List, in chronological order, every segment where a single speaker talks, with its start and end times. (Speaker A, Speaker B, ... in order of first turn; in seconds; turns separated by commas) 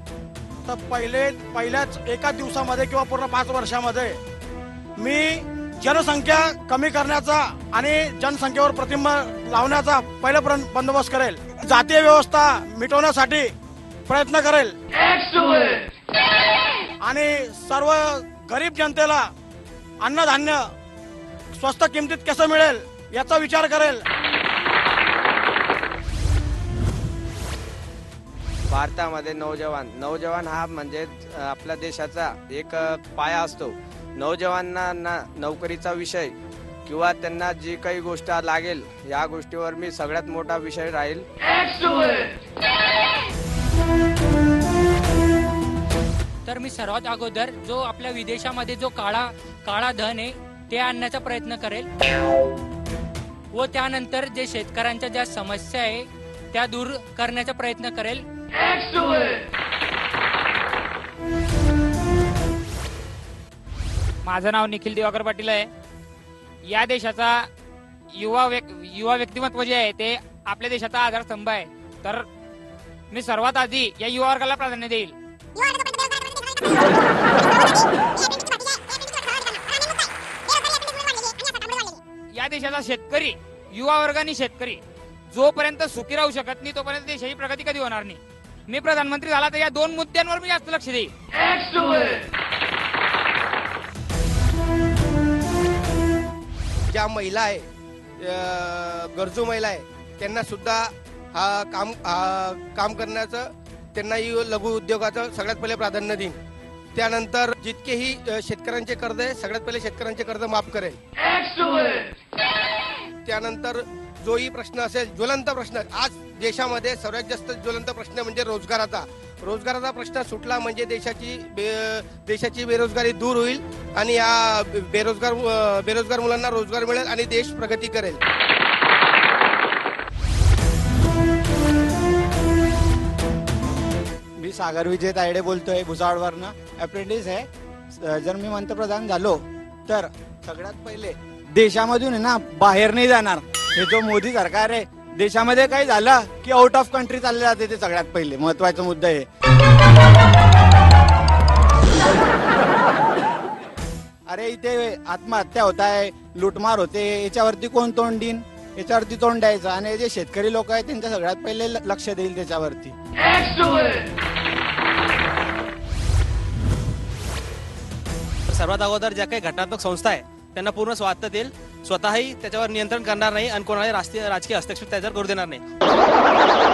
Speaker A: 0.7-4.2, Speaker A: 5.0-13.5, Speaker A: 14.1-14.7, Speaker A: 17.0-19.3, Speaker A: 20.0-20.7, Speaker A: 21.5-24.0, Speaker B: 28.7-41.3, Speaker C: 46.5-51.9, Speaker C: 53.5-58.2, Speaker D: 64.2-65.7, Speaker D: 66.7-67.5, Speaker D: 68.2-72.3, Speaker D: 73.1-75.2, Speaker D: 82.3-91.1, Speaker E: 96.9-97.7, Speaker E: 98.2-106.4, Speaker E: 107.0-111.0, Speaker E: 113.2-128.2, Speaker F: 134.4-137.5, Speaker F: 138.0-149.2, Speaker F: 154.3-162.9, Speaker G: 168.5-175.6